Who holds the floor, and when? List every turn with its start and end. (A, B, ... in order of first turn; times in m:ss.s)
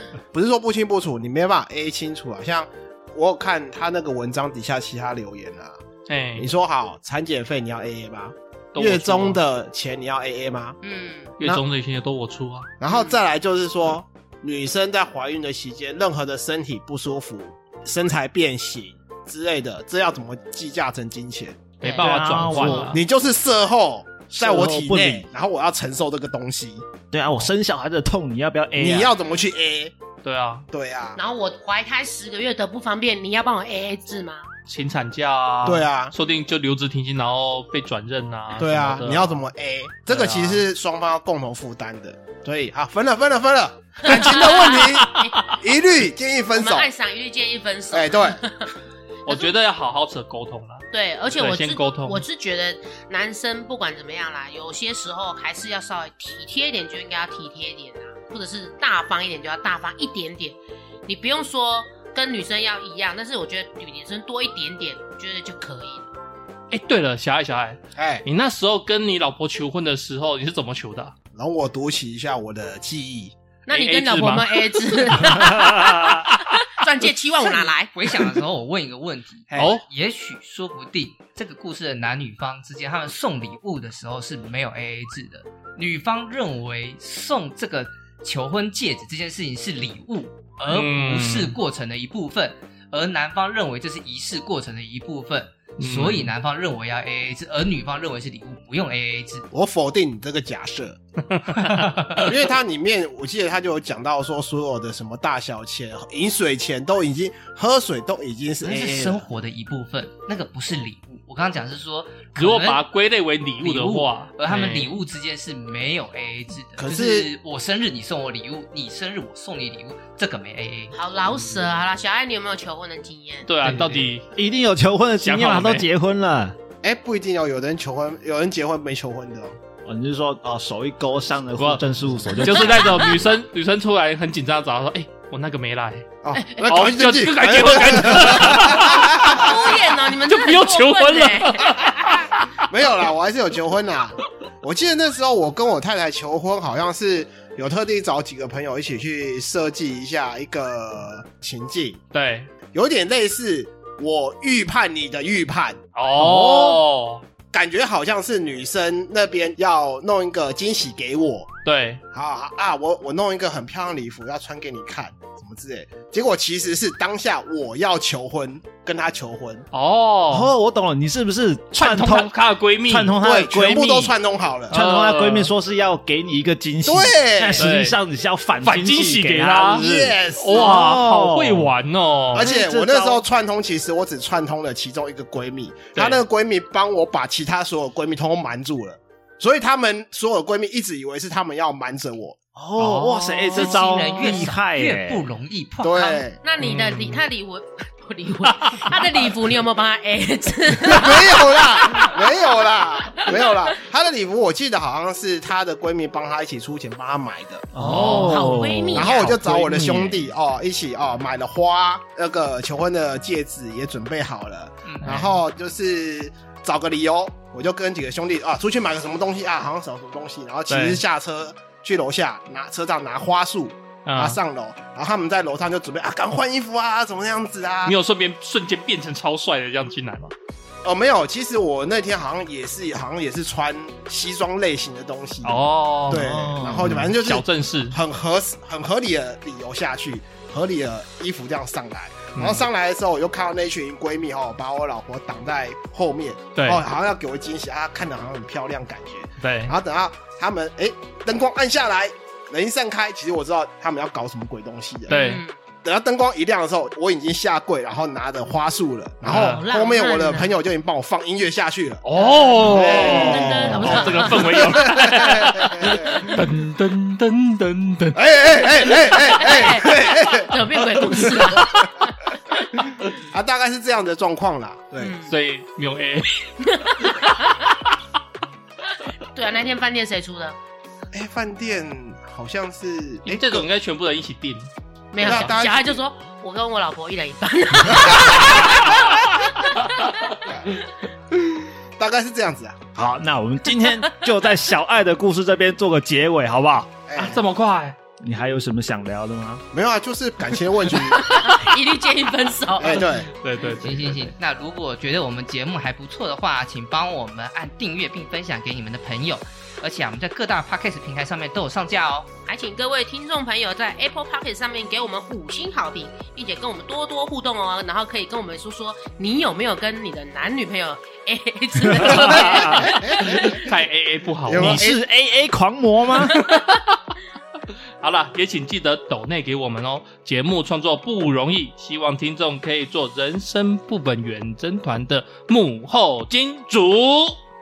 0:00.3-0:05.8 A
0:06.1-0:06.5 B
0:06.4-0:10.8 A
0:08.7-0:09.4 B
0:10.8-0:11.4 C
0:11.4-0:12.7 B
0:12.8-0:21.8 A
0:12.9-0:13.2 C
0:21.8-0:23.0 B
0:21.8-0:22.9 C
0:22.0-0:23.0 D
0:22.9-0:26.8 A
0:24.3-0:25.3 D
0:27.1-0:29.1 D
0:28.8-0:29.9 A
0:30.2-0:30.7 B
0:30.7-0:31.2 A
0:31.2-0:34.5 C
0:34.7-0:39.4 B
0:35.6-0:36.1 A
0:38.6-0:46.9 A
0:40.1-0:40.6 B
0:44.1-0:45.5 B
0:44.1-0:45.3 C
0:46.5-0:48.7 C
0:47.9-0:48.4 A
0:49.2-0:49.5 C
0:49.2-0:52.2 B
0:50.9-1:06.1 C
1:06.7-1:11.1 B
1:08.0-1:08.2 A
1:11.3-1:13.3 A
1:13.7-1:17.9 C
1:13.7-1:16.6 B
1:17.9-1:39.5 E
1:19.5-1:19.8 A
1:19.5-1:19.8 B
1:30.7-1:31.6 B
1:35.8-1:36.3 B
1:39.5-1:41.0 A
1:41.3-1:42.0 B
1:41.6-1:42.3 E
1:42.1-1:49.2 A
1:48.6-1:52.8 E
1:52.4-1:54.9 B
1:53.6-2:01.0 E
1:56.8-1:57.3 A
2:00.9-2:03.5 C
2:03.5-2:04.2 B
2:03.6-2:06.6 D
2:05.2-2:05.8 B
2:06.8-2:09.6 A
2:09.8-2:13.3 D
2:12.4-2:22.6 B
2:12.6-2:13.1 C
2:16.2-2:19.5 A
2:16.3-2:16.7 C
2:19.0-2:22.3 C
2:22.7-2:32.0 A
2:32.1-2:32.5 B
2:32.7-2:36.8 A
2:35.9-2:37.2 B
2:37.5-2:41.5 A
2:41.6-2:42.0 B
2:42.1-2:49.6 A
2:49.7-2:50.5 B
2:50.3-2:52.3 D
2:51.8-2:53.1 B
2:52.9-2:54.2 D
2:53.2-2:54.8 A
2:54.7-3:01.7 D
2:54.7-2:55.5 B
2:56.8-2:57.7 A
2:57.6-2:58.0 B
2:58.6-3:02.5 B
2:59.8-3:00.9 A
3:02.3-3:12.4 A
3:02.3-3:03.2 D
3:05.9-3:06.2 B
3:12.6-3:15.2 D
3:12.8-3:13.8 B
3:13.5-3:16.2 E
3:15.8-3:16.4 A
3:16.4-3:22.2 C
3:16.6-3:17.2 B
3:18.4-3:19.1 B
3:20.8-3:27.7 A
3:23.1-3:23.4 C
3:27.7-3:30.3 D
3:27.8-3:28.4 B
3:28.0-3:29.4 C
3:28.9-3:47.9 A
3:34.8-3:35.3 E
3:40.7-3:41.0 B
3:44.0-3:44.4 B
3:47.8-3:50.3 B
3:50.8-4:15.2 A
3:55.4-3:58.0 B
3:56.1-3:57.1 D
4:02.3-4:02.7 B
4:06.5-4:06.8 B
4:09.4-4:09.7 B
4:15.1-4:15.4 B
4:15.1-4:15.6 C
4:15.8-4:22.0 A
4:19.2-4:19.6 B
4:19.3-4:20.5 C
4:22.0-4:28.2 B
4:22.2-4:25.2 C
4:22.6-4:26.4 A
4:25.9-4:26.4 C
4:28.1-4:30.6 A
4:28.8-4:29.1 B
4:29.2-4:32.1 C
4:33.1-4:35.2 A
4:35.0-4:35.4 C
4:35.3-4:37.9 B
4:36.6-4:37.7 C
4:39.3-4:40.6 C
4:41.1-4:43.7 A
4:43.2-4:44.7 B
4:45.1-4:49.2 C
4:45.2-4:46.0 A
4:48.3-4:48.7 A
4:48.3-4:50.3 B
4:51.5-4:52.8 A
4:52.9-4:57.0 D
4:57.1-4:57.4 A
4:57.2-4:58.0 B
4:58.2-4:59.6 D
4:59.7-5:01.4 A
5:00.9-5:03.2 C
5:02.8-5:03.3 A
5:02.9-5:04.3 B
5:03.8-5:12.3 E
5:12.5-5:23.5 C
5:21.9-5:22.9 D
5:22.0-5:24.8 B
5:22.0-5:23.6 A
5:24.4-5:25.0 A
5:24.5-5:26.4 D
5:26.3-5:27.0 B
5:28.0-5:37.4 B